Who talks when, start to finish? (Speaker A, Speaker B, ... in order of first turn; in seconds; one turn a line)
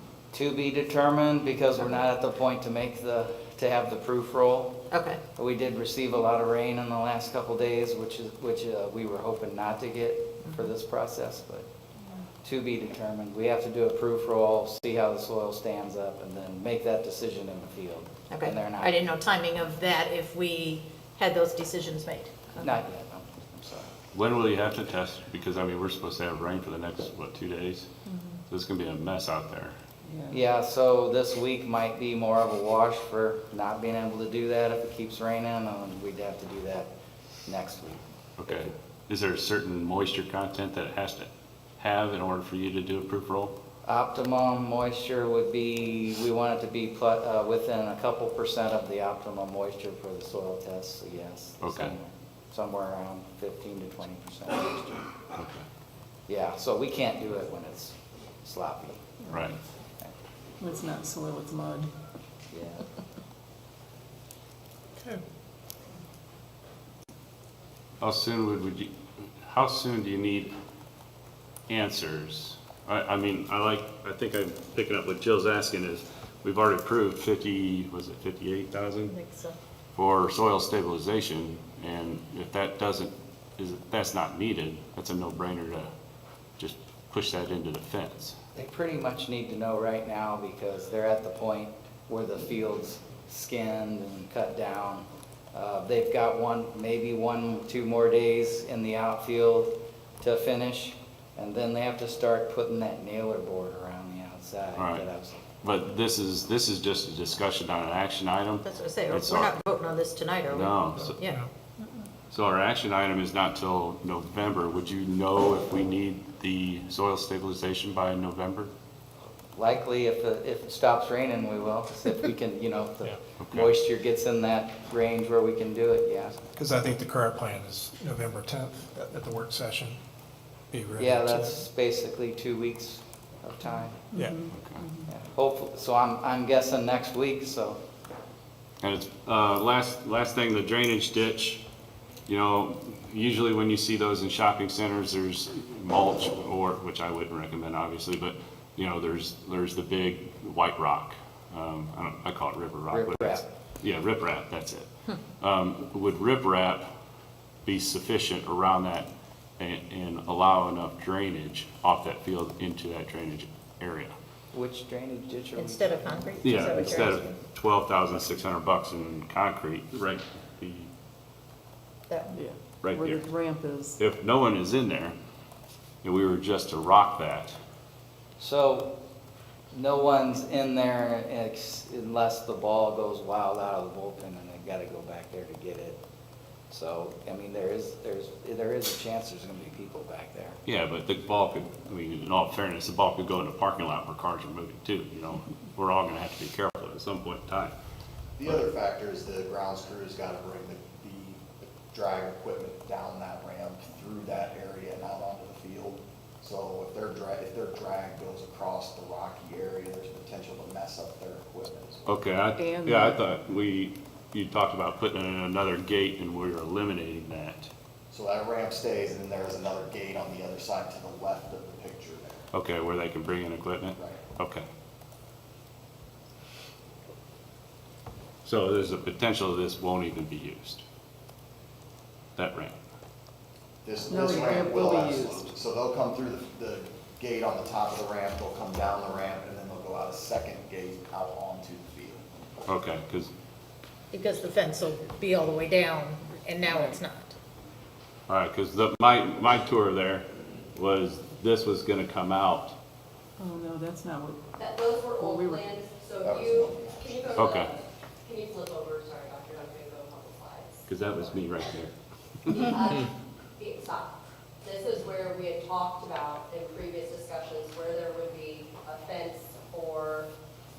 Speaker A: 0.3-4.8
Speaker B: 4.9-5.2
Speaker A: 5.4-11.7
Speaker A: 12.4-19.0
Speaker B: 18.3-22.8
Speaker A: 22.6-23.9
Speaker C: 24.1-27.9
Speaker C: 28.5-29.8
Speaker A: 30.3-36.9
Speaker A: 37.5-38.7
Speaker C: 38.4-43.5
Speaker A: 43.9-55.1
Speaker C: 51.6-52.0
Speaker C: 55.4-55.6
Speaker A: 56.3-60.1
Speaker C: 59.3-59.6
Speaker D: 60.6-61.9
Speaker A: 62.5-62.8
Speaker C: 68.0-70.5
Speaker C: 71.7-79.1
Speaker B: 79.1-79.6
Speaker C: 80.0-85.9
Speaker C: 86.6-88.4
Speaker A: 88.5-105.4
Speaker C: 104.8-105.1
Speaker C: 105.6-109.5
Speaker B: 108.6-111.4
Speaker C: 110.5-111.2
Speaker E: 111.1-111.5
Speaker C: 112.3-118.7
Speaker A: 119.5-126.4
Speaker C: 123.4-123.7
Speaker E: 126.5-130.0
Speaker E: 130.7-131.6
Speaker A: 131.0-134.0
Speaker E: 134.1-134.4
Speaker D: 134.1-135.0
Speaker C: 134.5-134.8
Speaker A: 135.1-137.8
Speaker C: 138.8-141.6
Speaker C: 142.3-156.8
Speaker A: 152.9-153.5
Speaker C: 157.7-164.1
Speaker A: 164.5-167.2
Speaker B: 165.6-167.3
Speaker C: 166.4-170.9
Speaker B: 172.1-172.4
Speaker D: 172.3-174.0
Speaker C: 172.8-173.3
Speaker C: 174.0-175.2
Speaker C: 176.0-177.6
Speaker A: 178.4-178.9
Speaker A: 179.7-186.0
Speaker A: 186.7-190.6
Speaker C: 190.7-197.8
Speaker F: 198.4-212.2
Speaker C: 212.1-217.7
Speaker D: 212.6-213.2
Speaker F: 218.1-222.4
Speaker C: 222.5-224.7
Speaker C: 228.4-230.8
Speaker C: 232.4-232.8
Speaker F: 233.8-242.2
Speaker D: 234.1-235.5
Speaker C: 242.7-243.3
Speaker B: 244.1-247.3
Speaker C: 248.3-252.8
Speaker D: 253.4-254.4
Speaker G: 254.6-261.5
Speaker D: 255.2-255.7
Speaker F: 256.2-256.7
Speaker C: 257.4-257.7
Speaker C: 260.9-261.9
Speaker G: 262.4-270.3